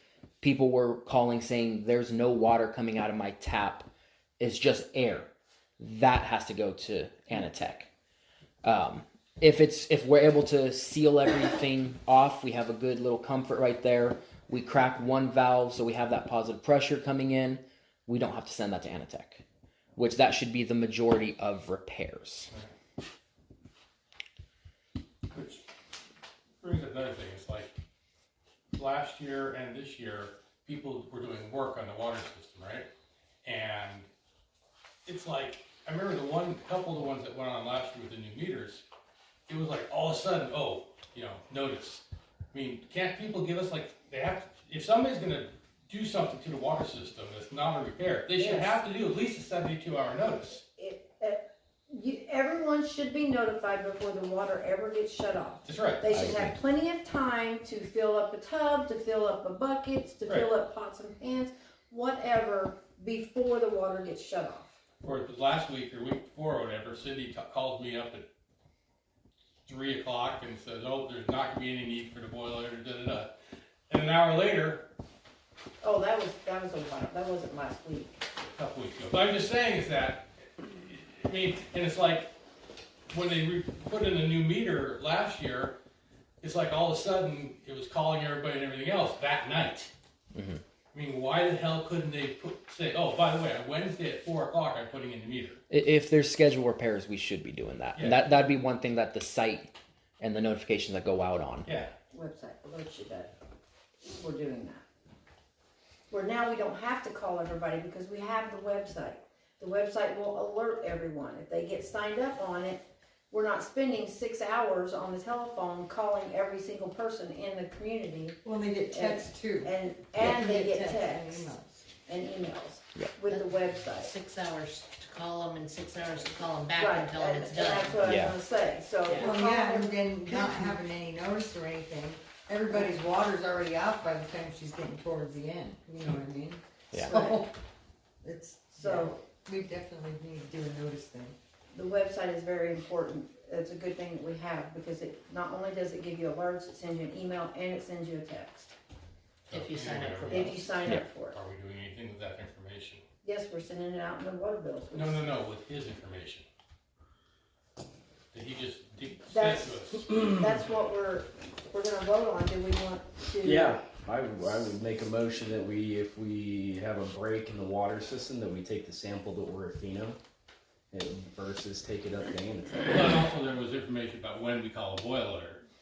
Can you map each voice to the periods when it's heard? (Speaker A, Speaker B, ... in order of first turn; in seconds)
Speaker A: 0.4-3.9, 4.4-7.9, 8.6-19.4, 20.0-22.5, 56.1-56.6, 90.3-90.6, 95.7-101.7, 128.1-128.3, 136.9-137.2
Speaker B: 25.3-25.6, 26.6-27.7, 28.7-32.9, 33.4-34.1, 35.0-38.8, 39.5-50.6, 55.6-56.1, 65.0-68.2, 69.7-73.3, 73.9-74.9, 78.4-82.3, 83.1-85.8, 86.4-89.9, 90.9-95.6, 98.0-98.2, 101.7-101.9, 149.5-153.0, 154.9-156.4, 158.3-160.1, 172.8-175.6
Speaker C: 48.4-48.8, 50.8-64.8, 75.8-78.2, 102.1-103.3, 104.0-104.8, 106.1-118.4, 118.9-124.1, 126.8-130.5, 137.1-137.3, 138.8-139.2, 141.7-148.7, 150.3-151.4, 153.2-155.3, 159.3-163.8
Speaker D: 118.5-121.9, 129.2-137.5, 138.2-141.3
Speaker E: 124.0-127.9, 149.5-150.8
Speaker F: 163.4-170.2, 170.9-173.2